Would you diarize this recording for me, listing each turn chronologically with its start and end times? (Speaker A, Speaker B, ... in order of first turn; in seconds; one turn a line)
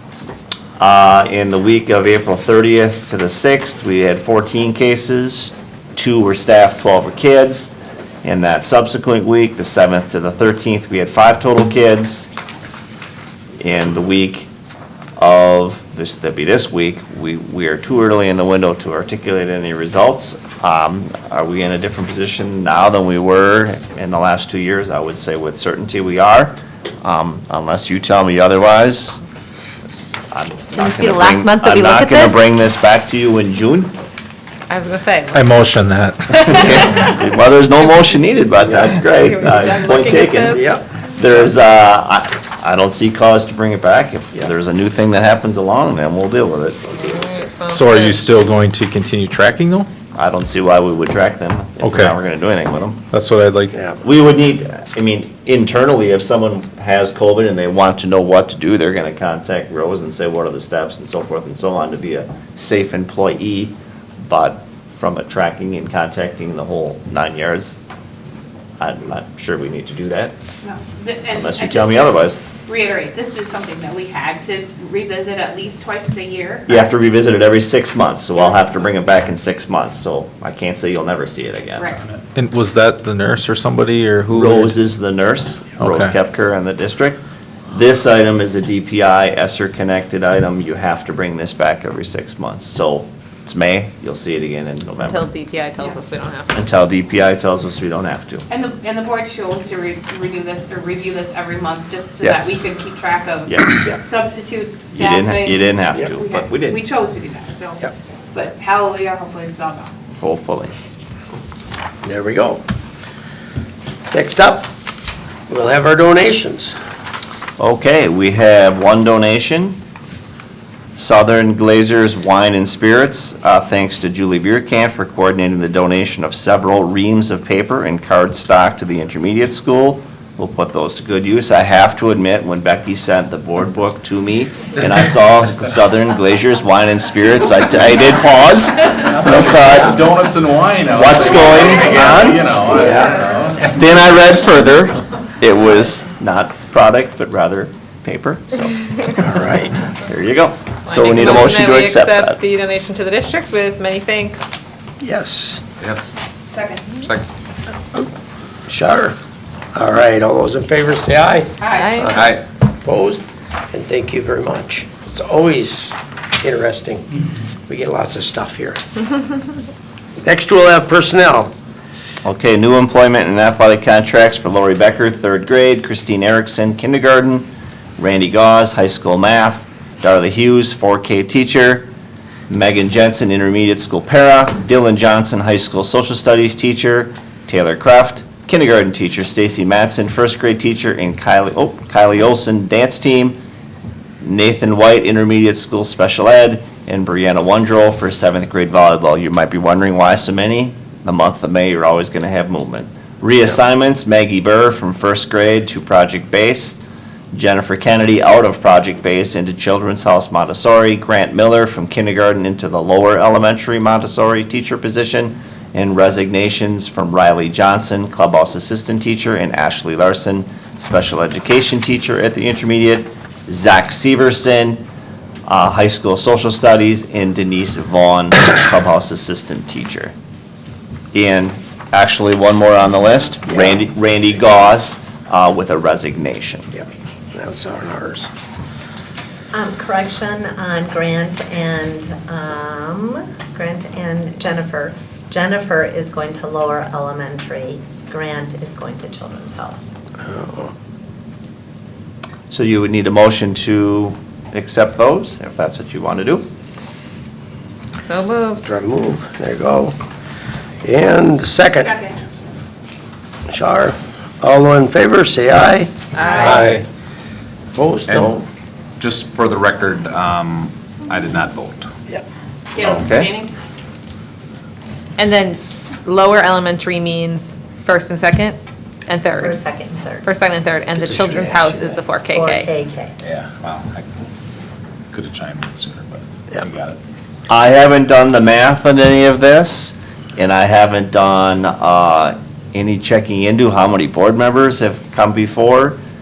Speaker A: 0.8-7.7
Speaker A: 8.2-12.3
Speaker A: 13.6-14.5
Speaker A: 15.2-29.2
Speaker A: 30.3-33.9
Speaker B: 30.8-32.1
Speaker C: 31.6-32.2
Speaker C: 34.7-35.5
Speaker D: 35.3-36.6
Speaker A: 36.3-40.6
Speaker C: 36.5-36.9
Speaker E: 38.6-39.1
Speaker C: 39.1-40.7
Speaker E: 40.5-40.8
Speaker A: 41.2-47.2
Speaker C: 47.0-48.2
Speaker D: 47.7-49.9
Speaker A: 50.1-53.0
Speaker D: 51.8-52.1
Speaker D: 53.1-53.7
Speaker E: 53.7-54.0
Speaker A: 54.0-67.8
Speaker A: 68.8-70.3
Speaker F: 70.6-76.8
Speaker A: 71.3-72.4
Speaker A: 76.7-81.9
Speaker F: 78.3-79.1
Speaker D: 82.3-84.8
Speaker A: 84.3-95.2
Speaker D: 85.8-86.1
Speaker C: 95.0-96.6
Speaker A: 96.5-98.4
Speaker F: 98.5-109.9
Speaker A: 102.2-102.6
Speaker A: 103.5-103.9
Speaker A: 104.9-106.8
Speaker A: 110.2-110.7
Speaker E: 112.0-112.6
Speaker E: 114.1-114.7
Speaker E: 115.5-116.8
Speaker A: 117.6-119.8
Speaker A: 121.0-140.1
Speaker G: 139.2-143.7
Speaker E: 139.8-140.0
Speaker A: 140.9-142.5
Speaker E: 142.8-143.2
Speaker A: 143.6-149.3
Speaker E: 149.2-149.8
Speaker A: 149.9-152.4
Speaker C: 150.9-154.6
Speaker E: 155.0-155.6
Speaker G: 155.8-156.1
Speaker F: 156.5-156.9
Speaker G: 157.0-157.3
Speaker E: 158.7-159.2
Speaker E: 159.7-167.1
Speaker F: 161.6-162.0
Speaker C: 161.7-162.2
Speaker G: 162.1-162.4
Speaker E: 167.7-168.8
Speaker E: 170.2-171.5
Speaker A: 172.2-181.9
Speaker A: 182.5-193.4
Speaker A: 194.2-206.8
Speaker A: 207.3-224.8
Speaker A: 225.5-230.1
Speaker A: 231.1-236.7
Speaker E: 233.5-233.8
Speaker E: 236.7-238.3
Speaker B: 239.5-249.9
Speaker E: 250.2-250.7
Speaker A: 252.5-256.5
Speaker C: 257.9-258.7
Speaker E: 258.6-260.0
Speaker E: 260.8-261.9
Speaker F: 261.7-262.2
Speaker E: 263.5-266.9
Speaker C: 266.1-266.8
Speaker F: 266.2-266.7
Speaker E: 267.7-268.5
Speaker G: 268.1-268.4
Speaker G: 269.0-271.9
Speaker F: 272.7-273.5
Speaker A: 272.8-273.3
Speaker C: 275.2-279.6
Speaker B: 279.4-280.3
Speaker C: 280.2-282.7
Speaker E: 281.0-281.8
Speaker G: 281.2-281.9
Speaker B: 282.2-283.1
Speaker G: 283.2-284.1
Speaker G: 285.1-287.0
Speaker A: 287.5-296.0